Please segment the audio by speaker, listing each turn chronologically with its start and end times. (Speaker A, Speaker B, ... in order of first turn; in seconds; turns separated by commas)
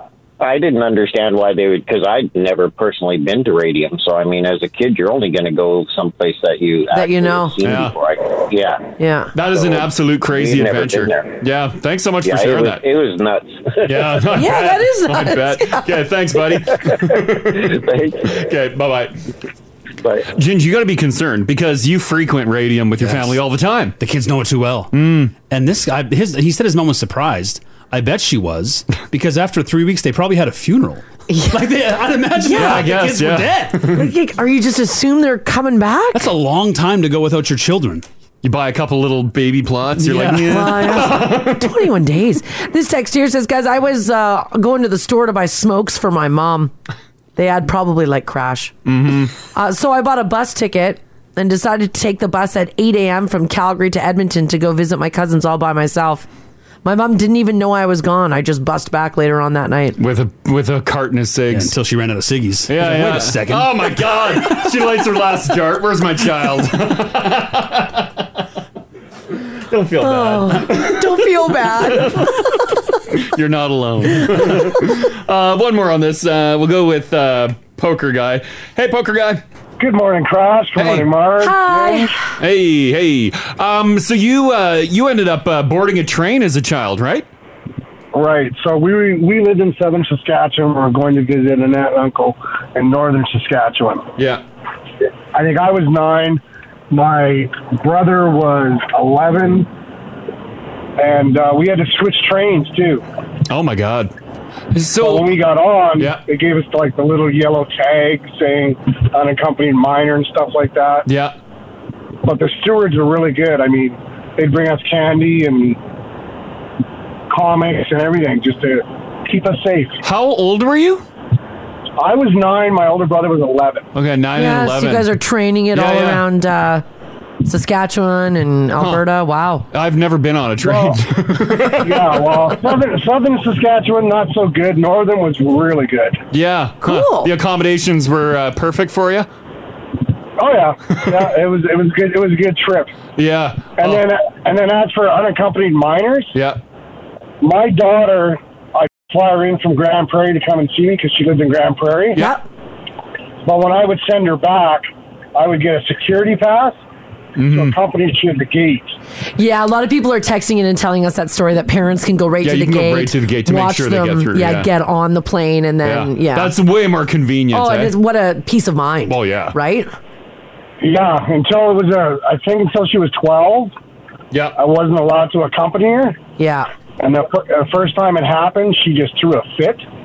Speaker A: 0.4-11.4, Speaker B: 6.9-7.5, Speaker C: 7.6-8.0, Speaker B: 9.0-9.3, Speaker C: 9.3-12.8, Speaker A: 12.2-14.3, Speaker C: 13.8-19.2, Speaker B: 14.3-15.9, Speaker A: 16.9-18.4, Speaker A: 20.0-20.3, Speaker C: 20.3-24.0, Speaker D: 23.0-23.4, Speaker D: 24.0-34.0, Speaker C: 24.9-25.4, Speaker B: 31.3-31.6, Speaker B: 32.4-32.9, Speaker C: 32.5-34.1, Speaker B: 33.9-36.3, Speaker D: 36.1-38.0, Speaker C: 38.4-41.8, Speaker D: 40.0-40.7, Speaker B: 40.5-46.7, Speaker B: 47.4-48.8, Speaker C: 48.9-49.4, Speaker B: 49.4-56.3, Speaker B: 56.9-60.0, Speaker C: 60.0-61.8, Speaker D: 61.5-64.3, Speaker C: 62.7-68.2, Speaker C: 69.7-79.4, Speaker B: 70.0-72.5, Speaker E: 79.8-82.1, Speaker C: 80.8-81.1, Speaker B: 81.4-82.3, Speaker C: 82.4-87.3, Speaker E: 88.1-94.1, Speaker C: 94.2-94.4, Speaker E: 95.3-99.7, Speaker E: 101.0-103.0, Speaker C: 103.5-104.1, Speaker C: 104.7-105.3, Speaker E: 105.0-111.1, Speaker C: 106.0-106.2, Speaker C: 111.1-111.3, Speaker E: 112.2-115.8, Speaker E: 117.3-120.0, Speaker C: 120.0-121.0, Speaker E: 122.0-123.9, Speaker C: 124.0-125.1, Speaker B: 124.4-126.8, Speaker C: 125.7-126.2, Speaker B: 127.5-129.7, Speaker C: 129.7-132.5, Speaker E: 130.6-131.0, Speaker E: 131.7-136.2, Speaker C: 136.3-139.3, Speaker B: 136.8-137.3, Speaker E: 140.4-142.9, Speaker C: 143.2-144.0, Speaker E: 143.8-146.4, Speaker C: 146.3-146.6, Speaker E: 147.4-152.2, Speaker B: 152.2-152.4, Speaker E: 153.4-156.8, Speaker C: 157.4-157.8, Speaker E: 157.4-158.9, Speaker B: 159.4-166.6, Speaker C: 162.4-164.7, Speaker C: 165.8-167.9, Speaker B: 167.5-169.9, Speaker C: 169.1-169.6, Speaker E: 170.8-173.7, Speaker E: 174.6-176.2, Speaker B: 176.4-176.7, Speaker E: 177.0-179.8